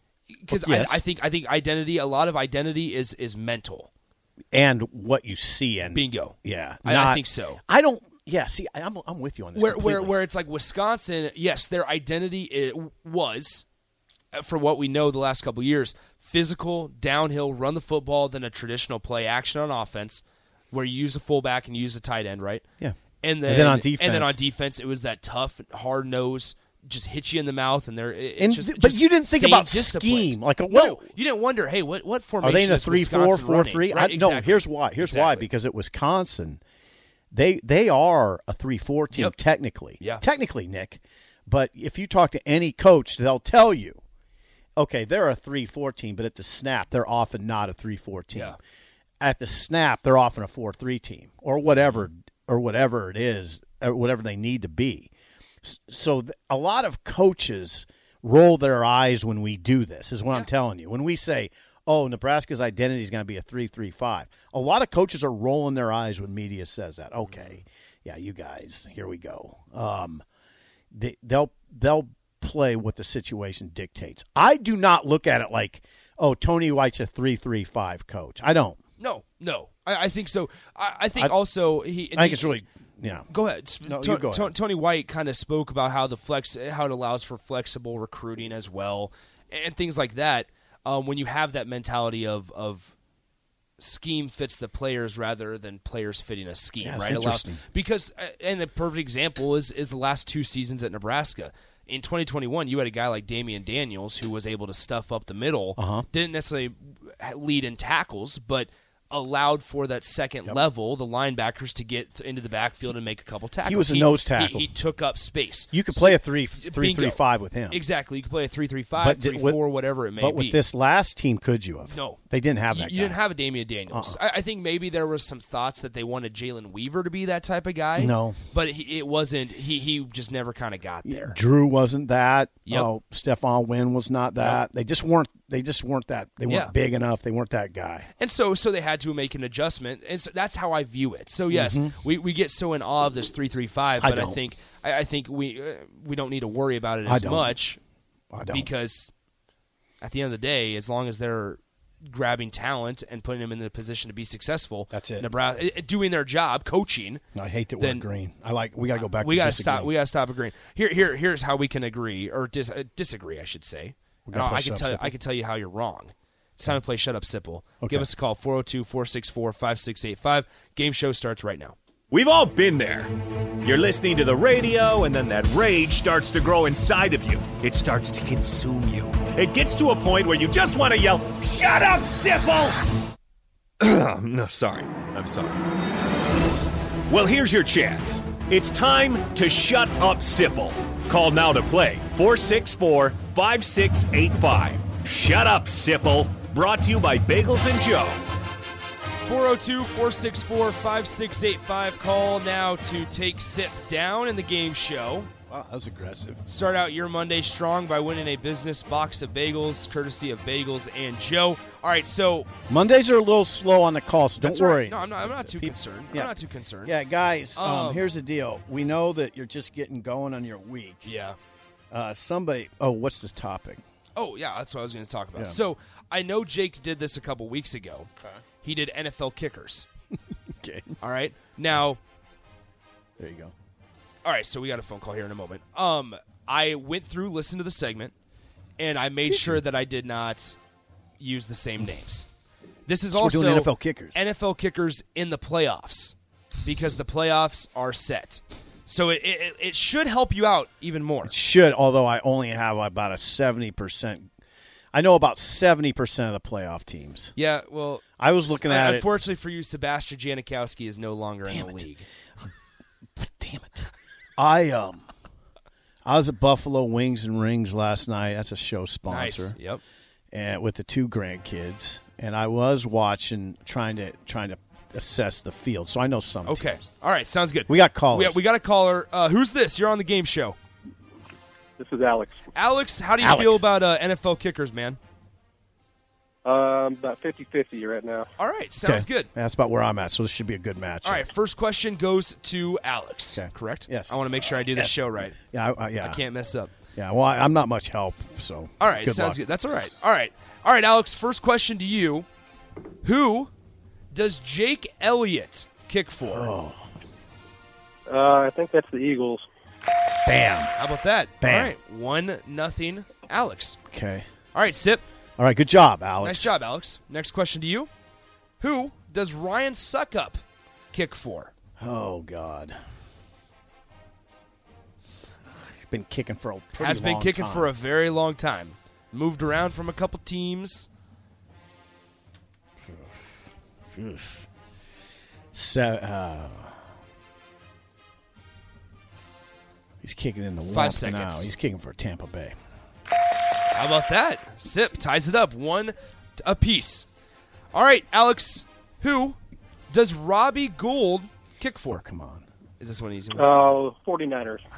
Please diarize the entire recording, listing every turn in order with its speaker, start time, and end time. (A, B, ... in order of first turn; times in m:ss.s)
0:00.3-0:03.9 A
0:00.5-0:01.0 B
0:04.5-0:10.2 B
0:05.9-0:07.6 A
0:09.6-0:13.6 A
0:14.3-0:22.6 A
0:22.8-0:24.4 B
0:23.2-0:35.5 A
0:28.4-0:31.0 B
0:32.4-0:36.6 B
0:37.3-0:44.0 B
0:44.8-0:48.6 B
0:49.2-0:55.1 B
0:55.6-1:10.2 B
1:07.3-1:07.6 A
1:10.9-1:18.8 B
1:19.0-1:22.6 A
1:22.1-1:23.3 B
1:23.3-1:32.9 A
1:23.8-1:24.6 B
1:33.8-2:00.6 A
1:36.8-1:37.6 B
1:45.8-1:46.1 B
1:53.6-1:54.7 B
1:55.7-1:57.8 B
1:59.0-1:59.6 B
2:00.2-2:03.2 B
2:01.9-2:02.2 A
2:02.7-2:11.4 A
2:03.9-2:04.2 B
2:08.0-2:08.4 B
2:11.0-2:18.1 B
2:14.4-2:14.6 A
2:16.5-2:16.8 A
2:18.2-2:27.8 A
2:21.5-2:22.0 B
2:24.0-2:24.4 B
2:27.0-2:27.6 B
2:28.3-2:28.7 B
2:28.5-2:29.1 A
2:30.0-2:37.2 A
2:34.9-2:35.3 B
2:37.3-2:39.9 B
2:37.8-2:38.1 A
2:38.9-2:51.8 A
2:44.3-2:45.1 B
2:47.8-2:48.1 B
2:52.1-3:02.8 C
3:03.8-3:05.6 C
3:07.1-3:18.2 C
3:19.2-3:25.3 A
3:25.5-3:26.4 B
3:26.4-3:32.5 A
3:32.7-3:41.1 B
3:34.4-3:37.0 A
3:37.6-3:38.1 A
3:41.0-3:41.4 A
3:41.9-3:43.8 B
3:44.2-3:48.1 A
3:48.6-3:49.9 A
3:50.6-3:51.0 B
3:51.0-3:52.0 A
3:53.2-3:53.5 B
3:54.2-3:58.1 A
3:58.8-4:00.6 A
3:59.3-3:59.6 B
4:01.2-4:02.3 A
4:02.9-4:11.3 A
4:03.1-4:04.2 B
4:11.2-4:14.3 B
4:14.9-4:17.3 B
4:17.4-4:22.1 A
4:18.2-4:19.1 B
4:21.5-4:21.9 B
4:23.2-4:25.0 B
4:26.0-4:29.6 B
4:29.1-4:29.8 A
4:30.3-4:36.8 B
4:36.5-4:40.6 A
4:37.7-4:38.4 B
4:41.8-4:42.4 D
4:42.5-4:45.0 A
4:43.2-4:43.6 B
4:46.4-4:48.3 D
4:48.4-4:49.3 A
4:48.8-4:51.3 B
4:51.0-4:55.4 A
4:53.3-4:56.2 B
4:56.0-4:56.7 A
4:57.0-4:59.4 B
4:58.8-5:02.3 A
5:03.0-5:03.5 A
5:04.1-5:06.6 A
5:06.3-5:06.9 B
5:08.1-5:09.5 D
5:10.2-5:10.8 B
5:10.8-5:13.8 A
5:11.4-5:11.7 B
5:13.9-5:14.3 B
5:14.5-5:15.0 A
5:15.4-5:16.5 B
5:16.2-5:17.9 A
5:18.6-5:21.5 A
5:21.8-5:22.8 B
5:25.6-5:27.7 B
5:26.8-5:30.9 A
5:32.9-5:33.3 B
5:33.9-5:34.5 B
5:35.5-5:36.8 B
5:40.0-5:42.6 B
5:40.7-5:41.5 A
5:43.7-5:47.1 A
5:47.7-5:49.4 A
5:49.9-5:52.0 A
5:51.9-5:52.4 B
5:52.8-5:53.5 A
5:53.4-5:54.6 D